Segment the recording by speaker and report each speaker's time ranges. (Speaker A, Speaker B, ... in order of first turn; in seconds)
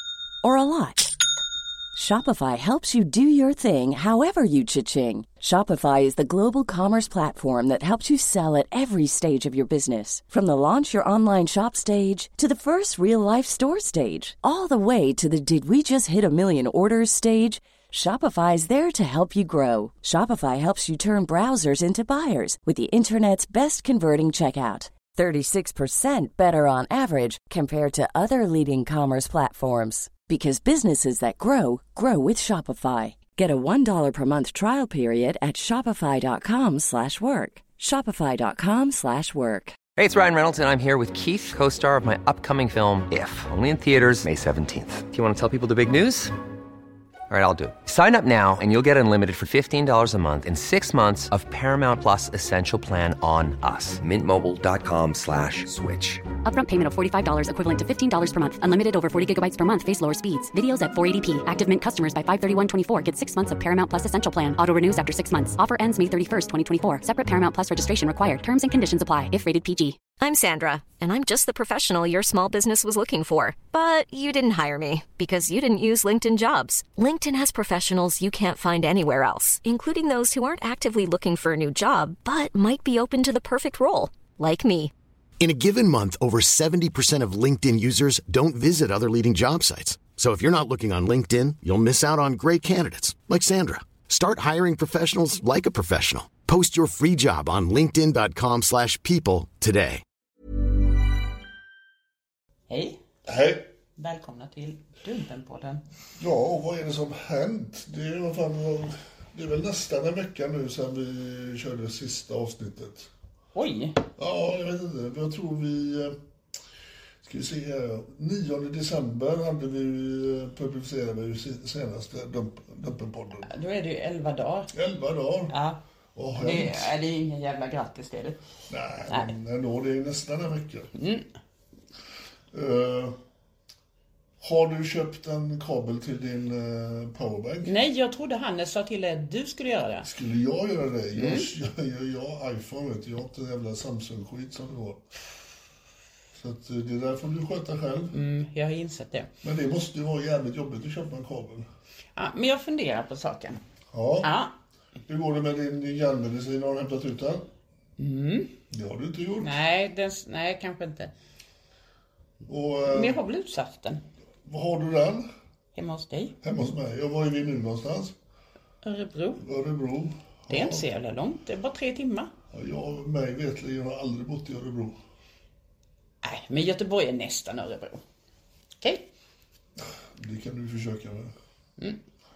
Speaker A: 0.4-1.1, 1.9-39.8
Speaker B: 40.0-46.3, 47.3-56.2
Speaker C: 56.4-70.0
Speaker D: 70.2-84.9
Speaker E: 85.4-100.0
Speaker F: 102.7-103.0, 104.0-105.8, 113.5-114.0, 123.5-124.7, 125.5-125.8, 126.3-128.4, 129.1-129.3, 130.9-131.3, 137.6-140.1, 141.2-141.5, 148.1-149.3, 152.2-153.6, 154.2-154.5, 158.0-158.5, 159.4-161.1, 162.8-164.0, 165.7-166.3, 168.8-169.4, 170.5-172.3, 176.2-178.0, 178.8-179.1
Speaker G: 103.2-103.7, 106.2-113.1, 114.2-116.2, 117.2-123.5, 124.7-125.5, 126.1-126.9, 128.7-130.9, 132.5-133.2, 134.4-137.7, 140.0-145.0, 146.3-148.1, 149.4-151.7, 153.9-154.3, 155.1-157.5, 158.7-159.6, 162.5-163.2, 164.4-165.3, 166.4-168.1, 169.4-170.8, 172.5-175.0, 179.8-181.3